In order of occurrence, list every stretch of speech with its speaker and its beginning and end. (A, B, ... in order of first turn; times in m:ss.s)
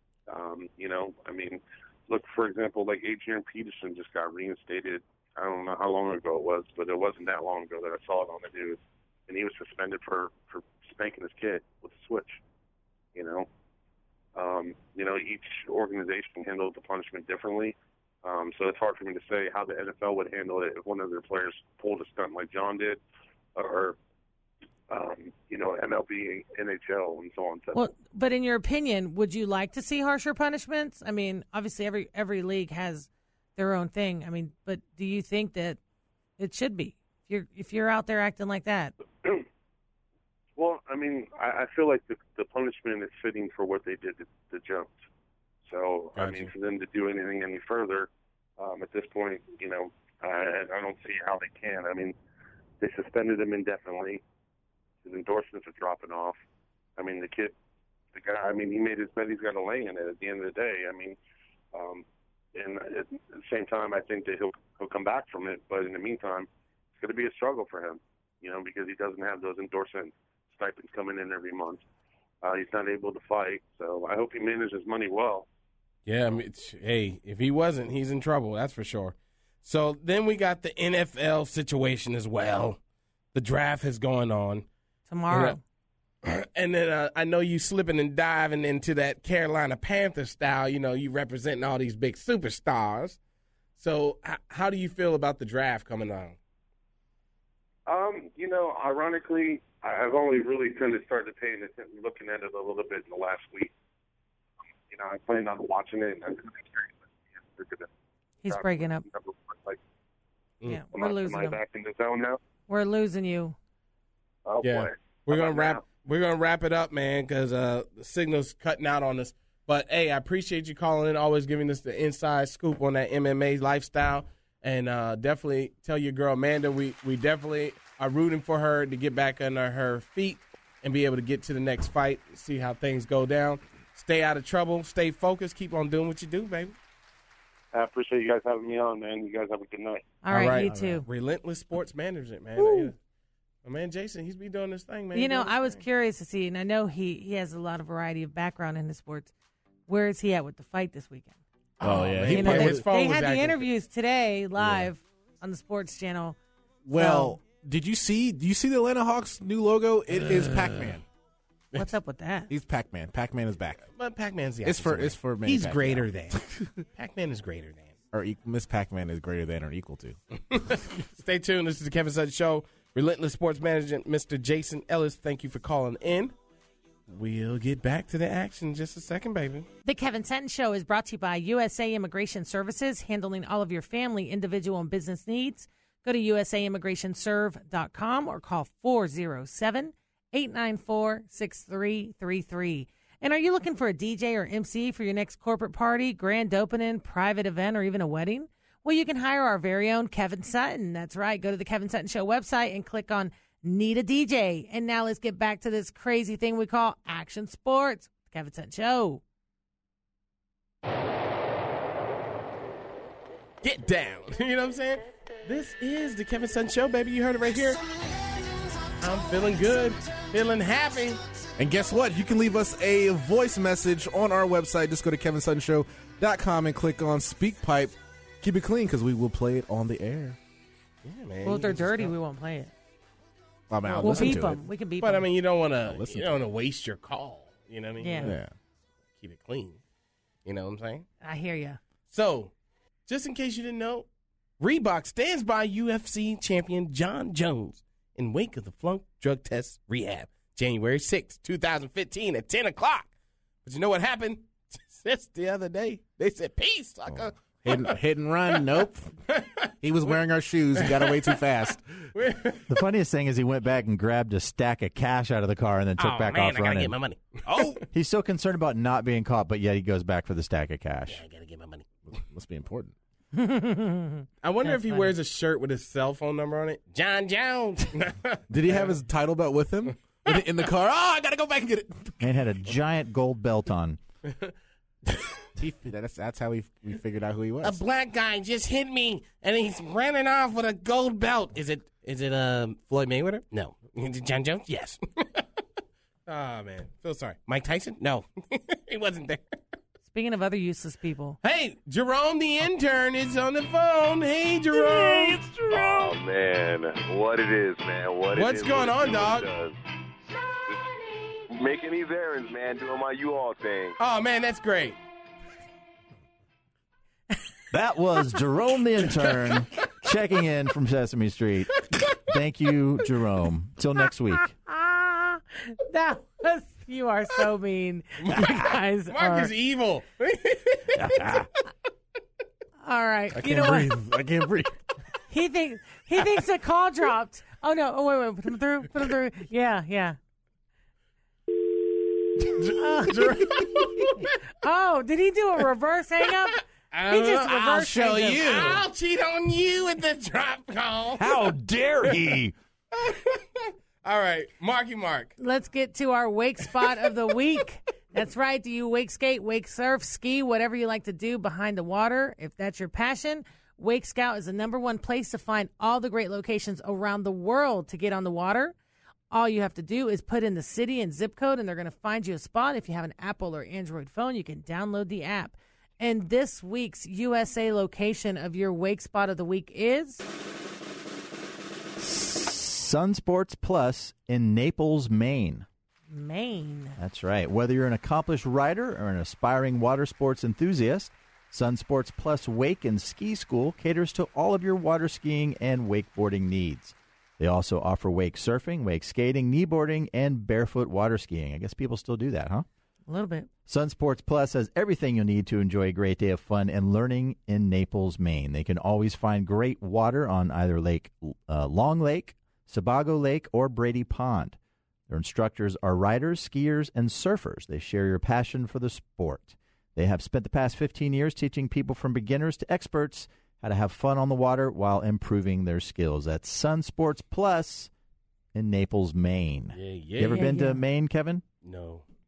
0:00.3-0:12.4 A
0:13.1-0:13.5 A
0:14.3-0:23.0 A
0:23.5-0:24.0 A
0:24.9-0:27.8 A
0:27.7-0:35.8 B
0:36.4-0:38.9 B
0:40.6-0:45.0 A
0:45.6-0:52.2 A
0:46.2-0:46.5 C
0:52.8-0:54.2 A
0:55.0-0:56.4 A
0:57.0-0:57.5 A
0:58.1-1:01.2 A
1:01.7-1:11.8 A
1:12.4-1:15.5 A
1:16.0-1:22.8 C
1:23.3-1:24.7 C
1:25.1-1:25.6 B
1:25.3-1:25.6 C
1:26.2-1:33.2 C
1:33.8-1:36.4 C
1:37.8-1:43.7 A
1:44.9-1:47.9 A
1:48.4-1:49.0 B
1:48.4-1:49.8 A
1:50.6-1:51.6 B
1:50.9-1:52.4 A
1:52.7-1:53.6 B
1:54.4-1:55.8 A
1:54.6-2:16.7 C
2:17.7-2:20.2 A
2:20.2-2:21.0 B
2:20.3-2:23.0 C
2:22.6-2:22.9 B
2:23.6-2:25.8 C
2:25.1-2:29.3 B
2:29.9-2:31.3 B
2:31.8-2:32.8 D
2:31.8-2:33.7 C
2:32.2-2:36.4 B
2:36.8-2:41.0 D
2:36.9-2:37.4 B
2:40.2-2:41.0 C
2:41.7-2:42.5 B
2:42.5-2:43.9 D
2:44.0-2:47.9 C
2:44.6-2:46.6 D
2:48.1-2:50.2 D
2:50.5-2:56.3 C
2:57.1-2:59.7 C
2:59.8-3:29.2 B
3:33.6-3:37.8 C
3:39.0-3:41.2 C
3:41.6-3:50.4 D
3:51.0-3:52.1 C
3:51.4-3:52.7 B
3:53.7-3:54.6 D
3:53.9-3:58.4 C
3:54.0-3:55.3 B
3:55.8-3:56.4 D
3:58.0-3:58.3 B
3:58.2-3:58.5 D
3:59.2-3:59.8 C
4:00.4-4:01.0 C
4:01.2-4:01.8 B
4:02.1-4:02.5 C
4:03.1-4:04.1 C
4:04.6-4:13.1 C
4:13.6-4:18.0 C
4:17.2-4:19.1 D
4:18.5-4:20.2 C
4:19.8-4:22.1 D
4:20.8-4:22.8 C
4:22.7-4:27.0 E
4:26.0-4:27.8 C
4:27.9-4:31.2 E
4:31.1-4:31.9 C
4:32.1-4:32.9 D
4:33.3-4:35.1 B
4:34.4-4:39.0 C
4:38.5-4:42.2 D
4:40.1-4:40.4 C
4:42.2-4:44.0 E
4:45.6-4:47.8 D
4:47.6-4:55.5 C
4:56.3-4:59.6 C
5:00.1-5:01.4 B
5:01.4-5:05.6 C
5:05.0-5:05.6 D
5:05.7-5:09.8 F
5:08.3-5:09.5 C
5:11.5-5:14.0 F
5:14.0-5:15.0 C
5:17.7-5:24.5 E
5:24.7-5:29.5 B
5:28.2-5:31.1 C
5:30.9-5:31.5 E
5:32.8-5:33.9 B
5:33.4-5:34.7 D
5:35.3-5:40.2 B
5:42.7-5:43.4 B
5:43.0-5:44.3 C
5:43.2-5:43.5 D
5:44.5-5:48.8 B
5:46.9-5:52.3 C
5:47.7-5:48.8 D
5:51.2-5:52.5 E
5:52.9-5:55.3 C
5:55.4-6:08.7 B
6:09.3-6:20.2 B
6:22.0-6:25.6 E
6:26.1-6:27.0 B
6:27.0-6:42.6 E
6:43.1-6:43.5 B
6:43.7-6:54.6 E
6:55.1-7:07.9 E
7:08.5-7:11.4 E
7:09.7-7:10.5 C
7:10.2-7:10.8 B
7:11.6-7:12.0 C